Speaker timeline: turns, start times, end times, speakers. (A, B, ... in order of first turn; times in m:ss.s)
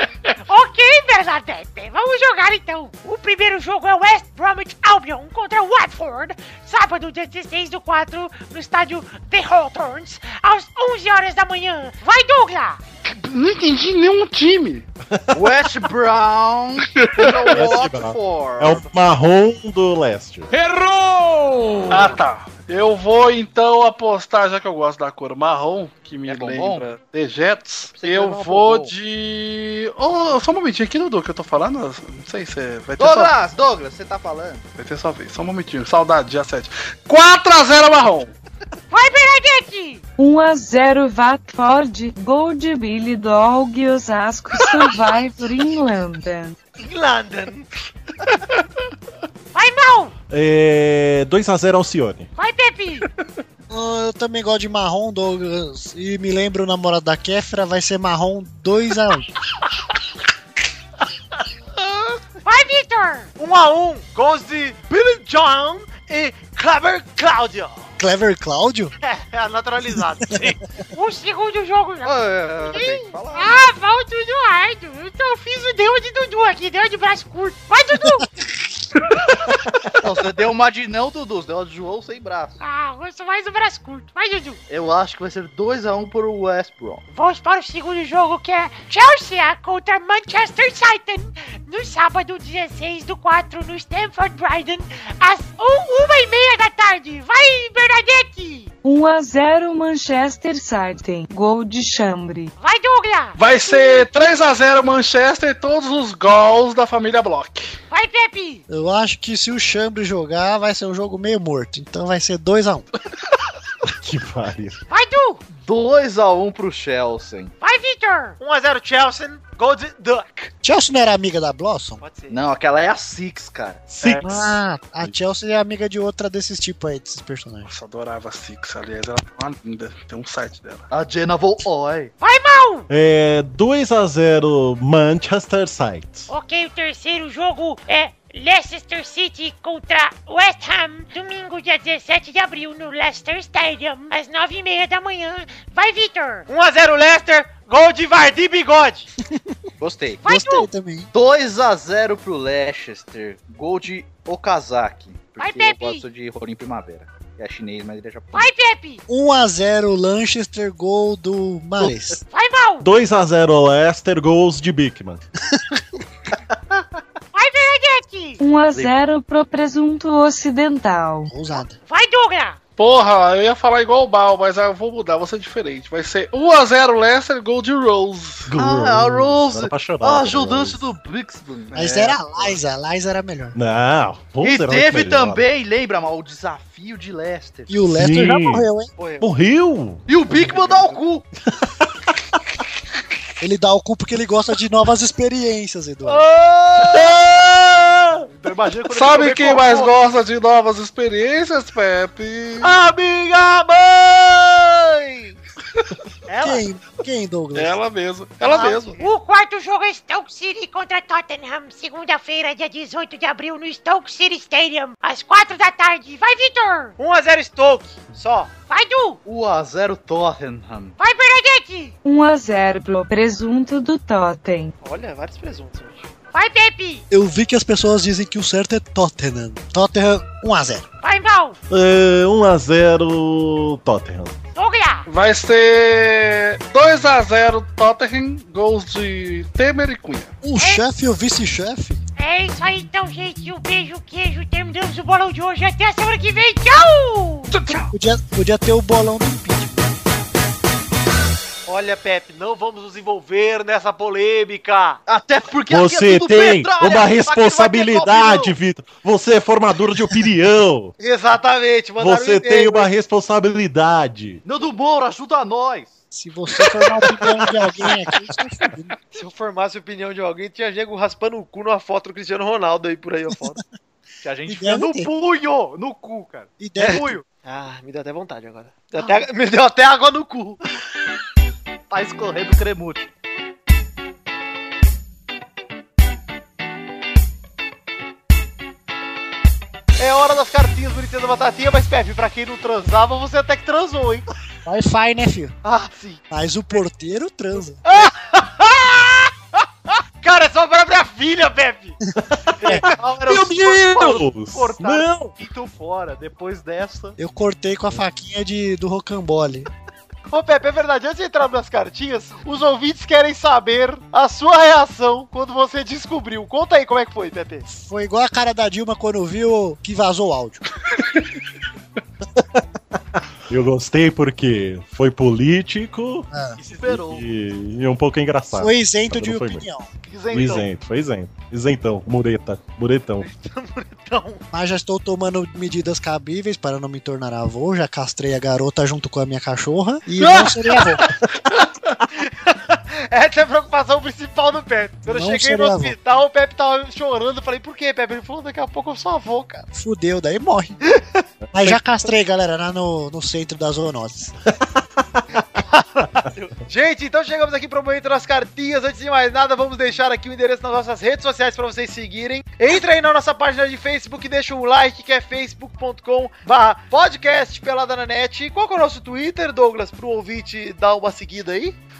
0:00.5-0:12.8 A
0:13.0-0:14.9 B
0:15.3-0:18.8 C
0:16.9-0:17.6 B
0:17.5-0:20.5 D
0:20.5-0:33.4 B
0:26.2-0:26.8 C
0:28.0-0:28.9 C
0:33.0-0:34.6 C
0:34.8-0:38.3 B
0:38.9-0:40.0 A
0:40.2-0:46.6 E
0:46.8-0:47.7 F
0:49.5-0:50.1 A
0:50.3-0:52.3 D
0:52.4-0:53.0 A
0:53.7-0:59.3 G
1:02.4-1:03.3 A
1:03.4-1:07.8 F
1:08.0-1:08.9 G
1:09.0-1:10.6 F
1:10.9-1:18.3 A
1:12.0-1:13.6 C
1:20.0-1:22.6 C
1:22.6-1:24.6 A
1:24.7-1:27.0 C
1:27.1-1:38.7 A
1:38.8-1:42.5 E
1:42.6-1:44.1 A
1:43.3-1:47.7 B
1:47.9-1:48.6 A
1:48.7-1:52.9 G
1:54.0-1:54.8 D
1:54.9-1:55.4 A
1:55.5-1:57.5 C
1:57.6-1:58.4 A
1:58.4-2:00.5 F
2:00.6-2:02.0 G
2:02.0-2:02.4 F
2:02.3-2:03.9 C
2:04.0-2:04.2 D
2:04.0-2:04.3 B
2:04.2-2:07.7 G
2:07.6-2:10.8 B
2:10.9-2:12.1 C
2:12.2-2:12.9 A
2:12.9-2:16.3 D
2:16.3-2:26.4 A
2:26.5-2:29.1 F
2:29.8-2:30.2 C
2:30.2-2:30.7 A
2:30.2-2:31.1 G
2:31.1-2:38.5 C
2:35.4-2:36.0 A
2:38.3-2:39.0 A
2:39.1-2:42.2 G
2:42.3-2:42.9 A
2:42.8-2:45.2 D
2:47.3-2:48.4 A
2:48.4-2:51.3 E
2:51.3-2:51.8 G
2:51.8-2:52.6 A
2:52.8-2:58.5 B
2:58.5-3:00.8 D
2:58.5-3:02.5 C
3:01.7-3:03.6 G
3:03.5-3:05.4 D
3:04.4-3:07.8 C
3:07.7-3:08.9 G
3:07.9-3:08.7 D
3:09.0-3:09.2 F
3:09.2-3:10.0 D
3:10.1-3:11.2 C
3:10.5-3:11.0 F
3:13.4-3:16.2 G
3:16.1-3:17.1 C
3:16.8-3:18.3 D
3:18.3-3:19.6 C
3:18.9-3:22.7 B
3:19.2-3:19.9 F
3:22.8-3:24.9 D
3:26.3-3:26.6 F
3:26.4-3:27.8 G
3:27.5-3:29.0 B
3:28.4-3:29.0 F
3:28.9-3:36.9 A
3:37.0-3:38.5 F
3:38.7-3:39.2 A
3:39.2-3:41.0 C
3:41.0-3:41.9 A
3:42.0-3:44.7 E
3:44.8-3:46.1 F
3:46.3-3:47.0 A
3:47.1-3:50.8 G
3:51.0-3:51.6 A
3:51.7-3:54.3 D
3:54.5-3:55.1 A
3:55.1-4:00.3 B
4:00.4-4:02.0 G
4:00.6-4:00.8 A
4:02.2-4:07.6 A
4:07.5-4:07.9 B
4:07.9-4:09.9 G
4:11.7-4:15.0 F
4:15.1-4:18.5 C
4:15.7-4:20.9 D
4:21.0-4:22.9 F
4:22.0-4:24.4 D
4:24.4-4:26.0 C
4:26.1-4:28.9 G
4:29.1-4:33.6 F
4:34.2-4:37.2 C
4:34.4-4:35.1 G
4:36.6-4:37.1 G
4:36.8-4:40.6 F
4:41.9-4:43.1 C
4:50.0-4:54.2 F
4:54.6-4:55.6 G
4:55.6-4:56.2 F
4:56.3-4:57.8 G
4:57.8-4:59.3 F
5:00.2-5:02.0 F
5:02.3-5:05.3 D
5:02.6-5:07.2 C
5:07.2-5:09.7 G
5:10.3-5:17.6 F
5:17.7-5:20.6 G
5:23.5-5:26.3 D
5:26.3-5:26.6 G
5:26.6-5:27.0 F
5:26.8-5:27.2 C
5:26.8-5:29.6 D
5:28.5-5:29.9 G
5:30.1-5:30.6 F
5:30.2-5:30.6 C
5:30.3-5:33.3 D
5:33.2-5:34.4 F
5:34.5-5:41.0 G
5:42.1-5:49.7 F
5:45.0-5:46.0 G
5:49.7-5:50.8 G
5:51.5-5:54.3 G
5:55.4-6:11.8 F